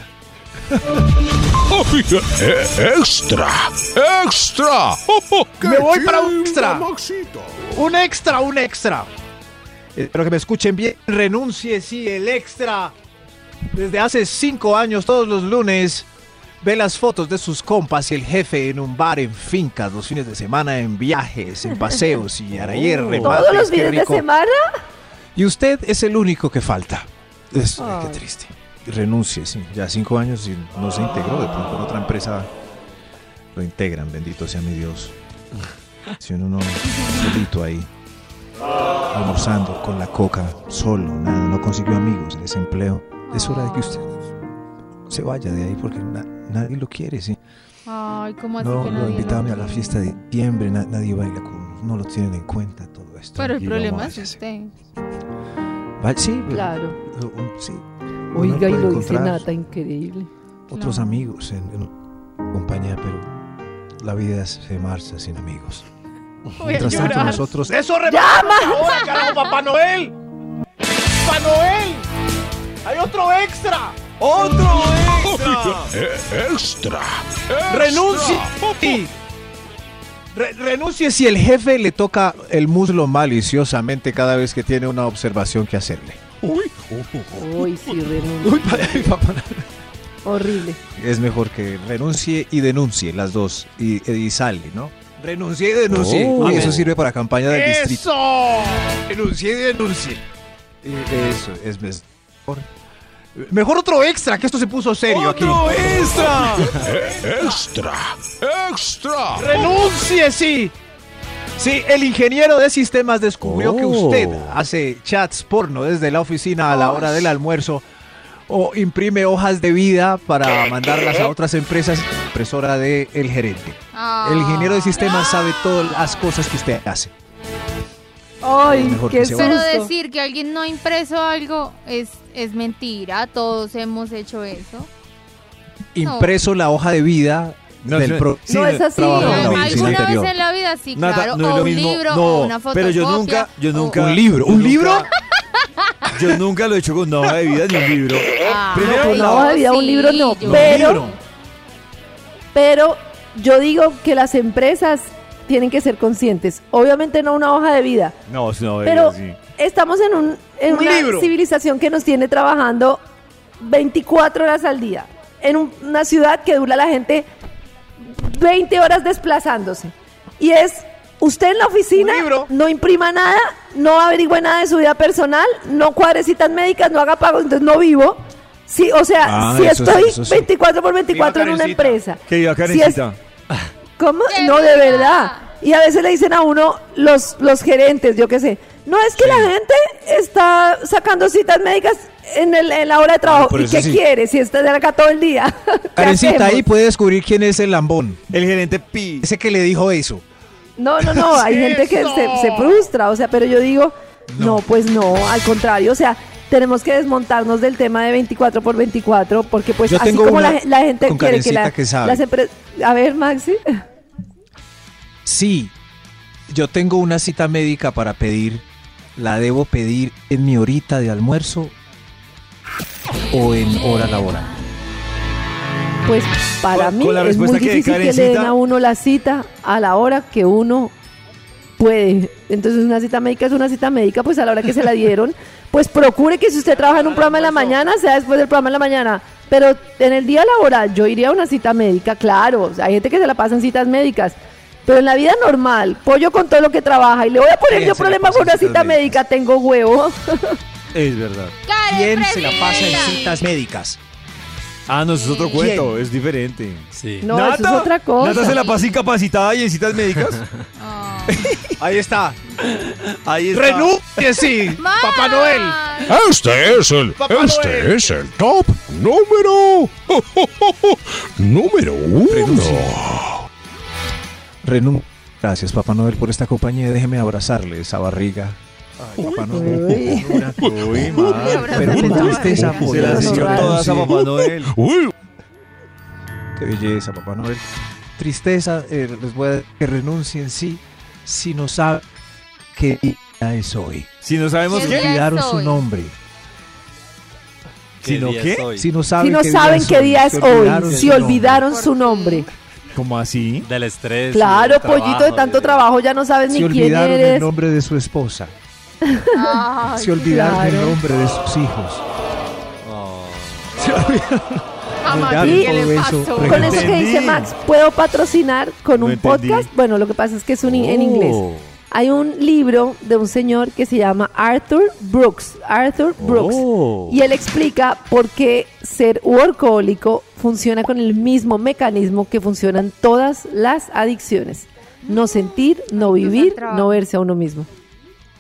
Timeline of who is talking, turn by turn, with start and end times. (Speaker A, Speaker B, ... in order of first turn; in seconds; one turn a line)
Speaker A: 1.7-7.7
Speaker B: 5.6-6.9
Speaker B: 7.7-9.1
Speaker B: 9.9-12.9
Speaker B: 13.7-16.1
Speaker B: 16.6-24.3
Speaker C: 22.5-23.4
Speaker D: 23.1-24.7
Speaker B: 25.4-32.5
Speaker D: 27.8-28.2
Speaker B: 33.5-35.1
Speaker B: 36.2-37.9
Speaker B: 39.1-44.1
Speaker E: 43.3-44.1
Speaker B: 45.1-47.4
Speaker E: 47.9-50.0
Speaker B: 48.6-54.4
Speaker E: 53.4-54.7
Speaker B: 56.0-59.5
Speaker D: 56.5-57.0
Speaker D: 58.3-60.3
Speaker B: 60.7-61.9
Speaker E: 60.7-61.2
Speaker B: 62.5-63.3
Speaker B: 64.0-65.8
Speaker E: 66.6-67.5
Speaker B: 66.6-67.9
Speaker D: 66.9-67.3
Speaker F: 67.0-70.1
Speaker D: 68.1-69.0
Speaker E: 69.0-69.5
Speaker F: 71.2-72.0
Speaker F: 72.9-73.9
Speaker G: 74.2-75.9
Speaker A: 75.2-79.1
Speaker B: 77.7-79.1
Speaker B: 80.3-86.2
Speaker A: 86.4-88.0
Speaker D: 87.3-89.1
Speaker B: 88.4-89.7
Speaker D: 90.2-90.8
Speaker B: 91.0-98.1
Speaker C: 95.9-96.9
Speaker F: 97.5-99.0
Speaker B: 99.1-100.2
Speaker B: 100.8-102.7
Speaker B: 103.3-106.8
Speaker G: 105.1-106.8
Speaker A: 105.3-109.9
Speaker B: 109.3-110.7
Speaker B: 111.6-117.8
Speaker C: 113.4-114.6
Speaker B: 118.5-127.1
Speaker E: 123.9-126.2
Speaker D: 128.4-129.9
Speaker B: 128.6-129.6
Speaker E: 129.3-134.9
Speaker B: 135.9-140.3
Speaker E: 136.0-136.3
Speaker G: 137.8-138.3
Speaker D: 138.5-140.0
Speaker E: 139.1-144.0
Speaker G: 139.3-140.0
Speaker G: 140.9-145.1
Speaker B: 143.9-145.1
Speaker G: 146.1-149.5
Speaker E: 148.4-151.2
Speaker D: 148.8-151.1
Speaker B: 150.4-151.2
Speaker D: 152.5-158.2
Speaker G: 158.3-159.4
Speaker D: 158.8-163.0
Speaker B: 160.7-161.3
Speaker D: 163.6-167.3
Speaker D: 168.0-183.0
Speaker B: 171.9-172.5
Speaker B: 179.2-180.5
Speaker B: 181.1-182.0
Speaker G: 182.3-183.2
Speaker D: 184.0-196.7
Speaker E: 184.3-185.4
Speaker B: 189.2-189.5
Speaker B: 193.2-194.0
Speaker B: 196.0-198.2
Speaker G: 198.3-199.3
Speaker B: 199.2-200.2
Speaker D: 200.8-213.8
Speaker B: 201.0-201.4
Speaker F: 201.4-202.9
Speaker B: 204.3-204.6
Speaker B: 209.9-212.2
Speaker B: 215.3-215.7
Speaker B: 216.5-218.7
Speaker B: 219.2-221.7
Speaker B: 223.3-224.5
Speaker D: 226.1-230.9
Speaker G: 226.7-228.6
Speaker D: 231.8-250.6
Speaker F: 236.7-237.8
Speaker B: 247.7-249.2
Speaker G: 250.9-251.6
Speaker E: 251.7-253.4
Speaker B: 251.9-254.0
Speaker G: 254.9-260.4
Speaker E: 255.2-255.7
Speaker B: 255.6-255.9
Speaker C: 256.9-257.3
Speaker D: 257.2-258.6
Speaker E: 260.8-261.5
Speaker B: 261.3-263.0
Speaker G: 263.2-264.0
Speaker B: 263.5-265.8
Speaker E: 264.7-266.2
Speaker A: 266.1-273.5
Speaker B: 267.2-268.2
Speaker B: 272.2-273.0
Speaker B: 274.6-284.1
Speaker A: 279.2-283.3
Speaker D: 279.5-280.5
Speaker E: 281.1-283.2
Speaker D: 281.8-283.9
Speaker G: 282.7-284.8
Speaker A: 284.0-285.1
Speaker B: 286.6-287.6
Speaker B: 288.2-292.0
Speaker B: 292.7-294.1
Speaker G: 294.2-295.1
Speaker B: 294.7-296.1
Speaker E: 294.7-295.8
Speaker C: 298.0-298.9
Speaker G: 298.0-298.7
Speaker B: 298.8-301.6
Speaker D: 299.2-302.5
Speaker C: 300.8-301.4
Speaker E: 301.6-302.5
Speaker G: 302.9-303.7
Speaker C: 303.6-305.9
Speaker D: 304.3-307.5
Speaker B: 306.5-308.5
Speaker D: 309.0-311.0
Speaker E: 309.3-310.1
Speaker B: 309.8-312.0
Speaker C: 312.8-313.9
Speaker B: 313.8-316.9
Speaker E: 315.0-316.9
Speaker G: 316.4-317.5
Speaker D: 316.5-337.7
Speaker G: 318.9-319.7
Speaker C: 320.6-321.7
Speaker C: 326.2-327.2
Speaker E: 335.1-337.0